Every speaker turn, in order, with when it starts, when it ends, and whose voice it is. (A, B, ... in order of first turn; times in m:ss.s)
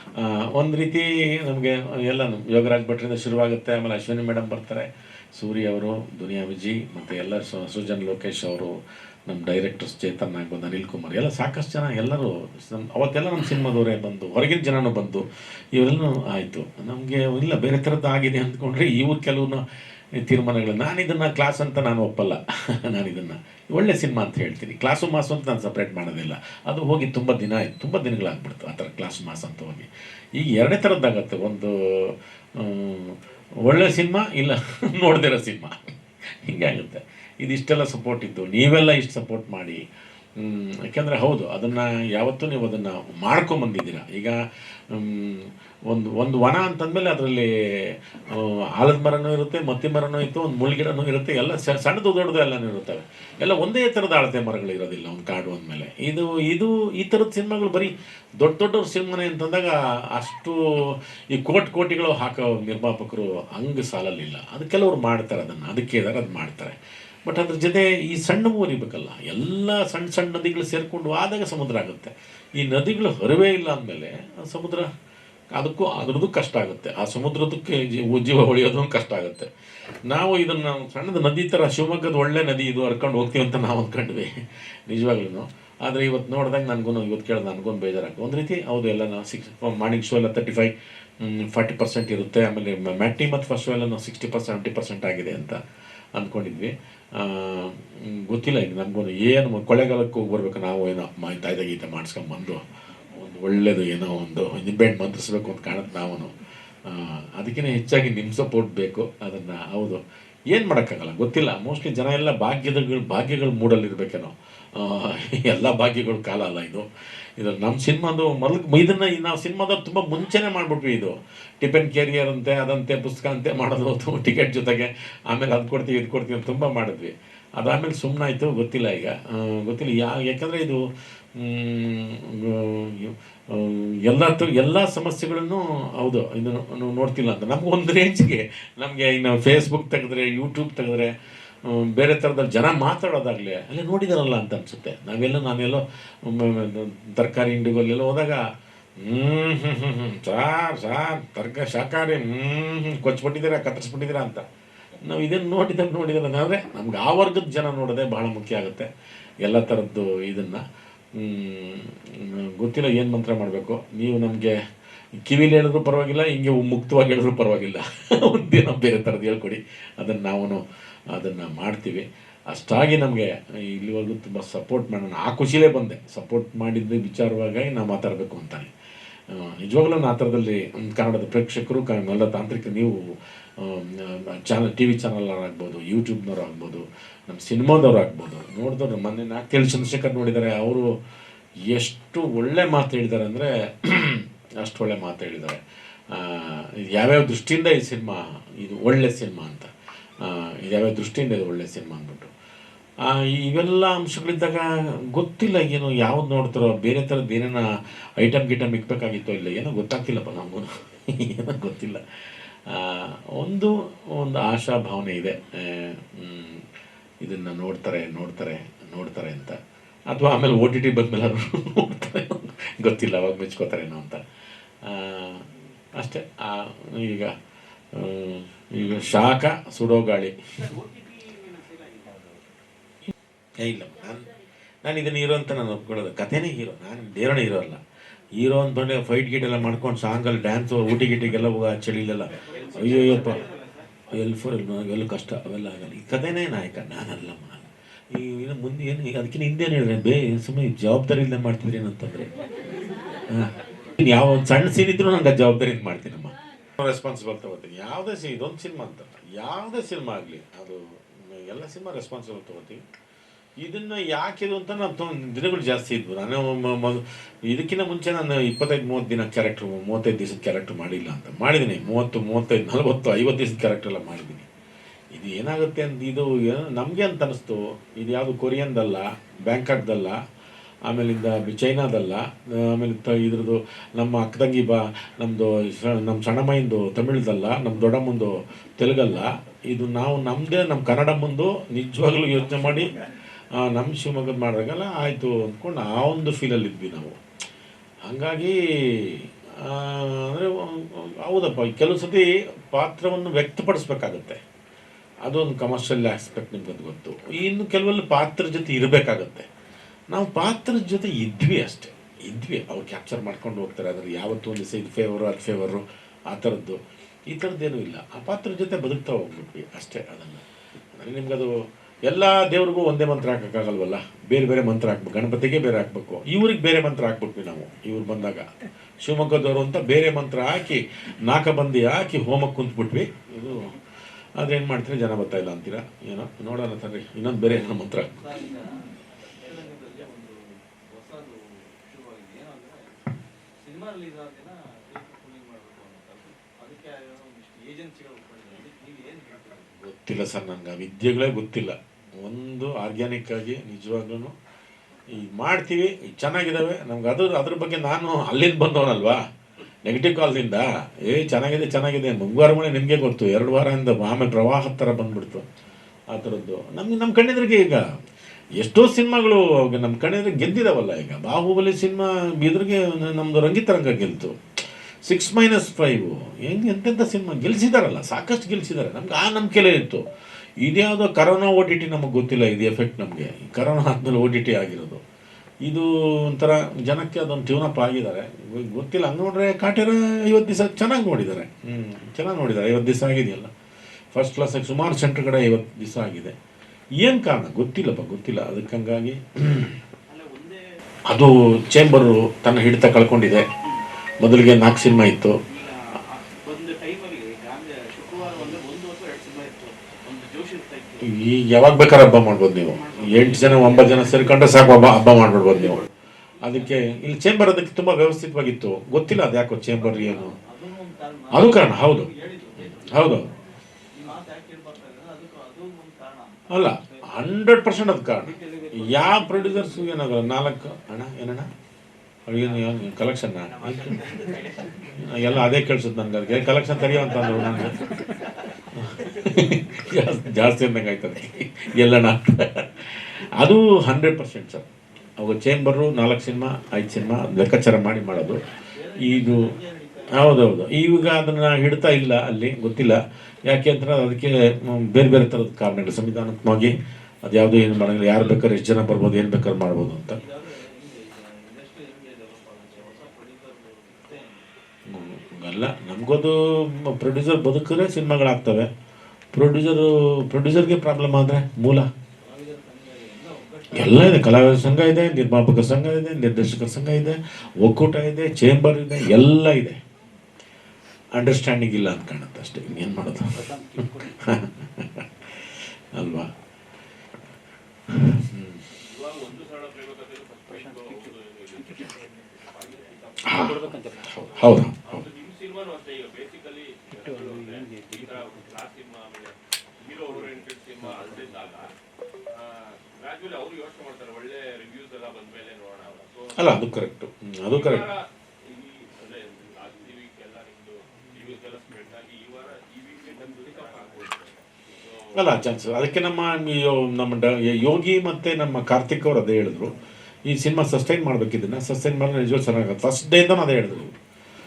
0:00.1-0:19.6 A
0:20.2-0:35.9 A
0:36.4-0:39.8 A
0:40.4-0:44.4 A
0:44.9-1:14.9 A
1:15.5-1:19.5 A
1:20.0-1:24.3 A
1:24.9-1:35.6 A
1:36.1-1:46.3 A
1:46.8-1:56.8 A
1:57.4-2:10.8 A
2:11.3-2:21.1 A
2:21.6-2:28.4 A
2:29.0-2:34.4 A
2:35.0-2:38.9 A
2:39.4-2:40.6 A
2:41.1-2:44.5 A
2:45.2-2:58.7 A
2:59.3-3:10.9 A
3:11.6-3:19.7 A
3:20.2-3:22.3 A
3:23.0-3:27.6 A
3:28.2-3:36.6 A
3:37.2-3:44.2 A
3:44.8-3:47.3 A
3:47.9-3:50.3 A
3:50.9-3:52.0 B
3:53.0-3:57.8 A
3:58.4-4:03.4 A
4:02.5-4:03.8 B
4:04.1-4:12.4 A
4:13.3-4:22.8 A
4:23.6-4:34.5 A
4:35.1-4:40.2 A
4:40.8-4:53.0 A
4:53.5-4:57.2 A
4:58.0-5:04.4 A
5:05.2-5:09.5 A
5:10.1-5:20.4 A
5:21.0-5:21.5 A
5:22.1-5:28.5 A
5:29.0-5:33.8 A
5:34.4-5:38.2 A
5:38.2-5:43.0 B
5:43.6-5:49.8 B
5:49.8-5:54.3 A
5:55.1-5:59.2 A
5:59.8-6:05.4 A
6:06.1-6:07.8 A
6:08.6-6:20.0 A
6:20.6-6:25.0 A
6:25.6-6:33.5 A
6:34.1-6:36.3 A
6:37.0-6:39.8 A
6:40.1-6:40.6 C
6:40.1-6:40.5 B
6:41.1-6:43.5 A
6:44.2-6:45.4 A
6:46.1-6:51.0 C
6:48.4-6:48.7 B
6:51.0-6:55.8 A
6:53.4-6:54.0 B
6:55.5-6:55.7 B
6:56.4-7:00.4 A
6:59.8-7:03.2 B
7:01.3-7:02.1 A
7:02.8-7:03.3 A
7:03.9-7:07.2 B
7:06.5-7:11.5 A
7:08.3-7:09.8 B
7:12.3-7:14.2 A
7:13.8-7:14.3 B
7:15.0-7:17.9 A
7:18.7-7:28.4 A
7:28.8-7:30.4 B
7:28.9-7:29.6 A
7:30.1-7:36.7 A
7:37.2-7:40.2 A
7:40.2-7:44.4 B
7:44.9-7:48.7 A
7:49.3-7:51.9 A
7:52.2-7:54.2 B
7:53.7-7:59.8 A
8:01.1-8:06.3 A
8:07.9-8:08.6 A
8:08.8-8:21.7 C
8:13.2-8:15.0 A
8:22.3-8:26.5 C
8:26.4-8:27.9 A
8:27.5-8:35.5 C
8:33.3-8:34.0 B
8:35.1-8:44.0 A